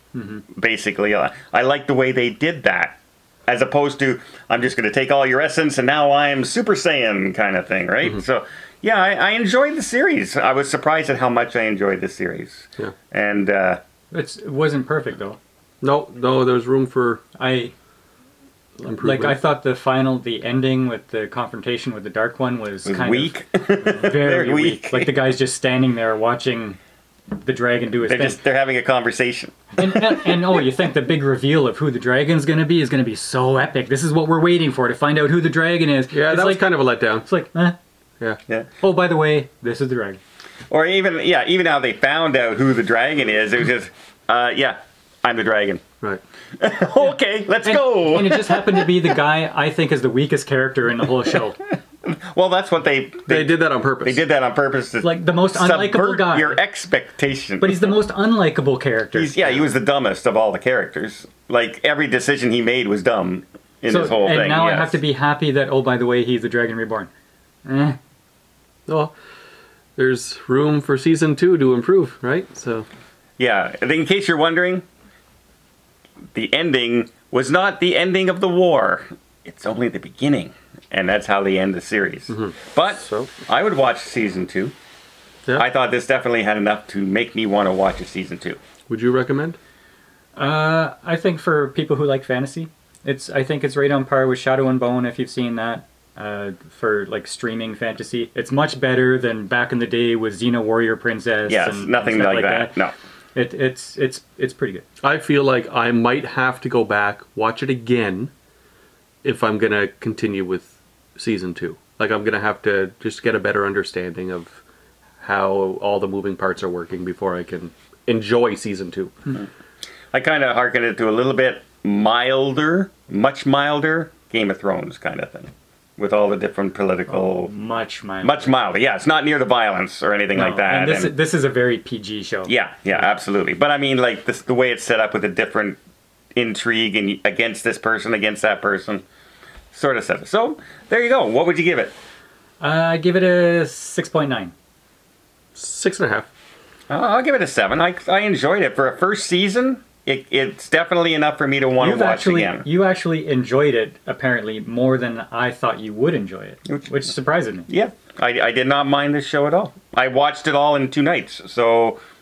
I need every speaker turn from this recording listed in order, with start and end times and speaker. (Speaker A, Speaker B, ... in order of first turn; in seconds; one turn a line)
Speaker A: 0.1-0.4
Speaker B: 0.5-13.8
Speaker A: 14.1-15.4
Speaker C: 15.8-17.2
Speaker A: 17.4-17.7
Speaker C: 18.8-19.4
Speaker A: 19.0-26.8
Speaker B: 22.8-25.1
Speaker A: 27.3-28.4
Speaker B: 28.0-30.2
Speaker A: 29.8-37.8
Speaker C: 36.1-37.3
Speaker A: 38.8-40.2
Speaker B: 40.7-45.8
Speaker B: 46.6-48.9
Speaker A: 47.6-51.6
Speaker B: 52.0-57.9
Speaker C: 53.3-54.2
Speaker A: 55.0-56.6
Speaker A: 57.6-59.7
Speaker B: 59.1-65.0
Speaker A: 63.9-67.1
Speaker A: 67.7-68.0
Speaker C: 68.9-69.1
Speaker C: 70.0-72.8
Speaker B: 73.4-74.8
Speaker B: 76.3-84.7
Speaker C: 82.3-83.3
Speaker B: 85.5-88.6
Speaker C: 88.9-89.6
Speaker A: 90.3-104.8
Speaker B: 101.5-102.9
Speaker C: 105.0-108.3
Speaker C: 109.2-114.6
Speaker C: 115.2-119.3
Speaker B: 120.1-127.5
Speaker A: 127.1-128.5
Speaker B: 128.2-131.1
Speaker A: 130.3-132.5
Speaker B: 132.5-135.8
Speaker B: 136.3-139.0
Speaker B: 139.7-141.9
Speaker A: 142.6-144.5
Speaker C: 145.5-146.3
Speaker B: 146.9-152.7
Speaker A: 151.8-157.7
Speaker B: 157.7-162.0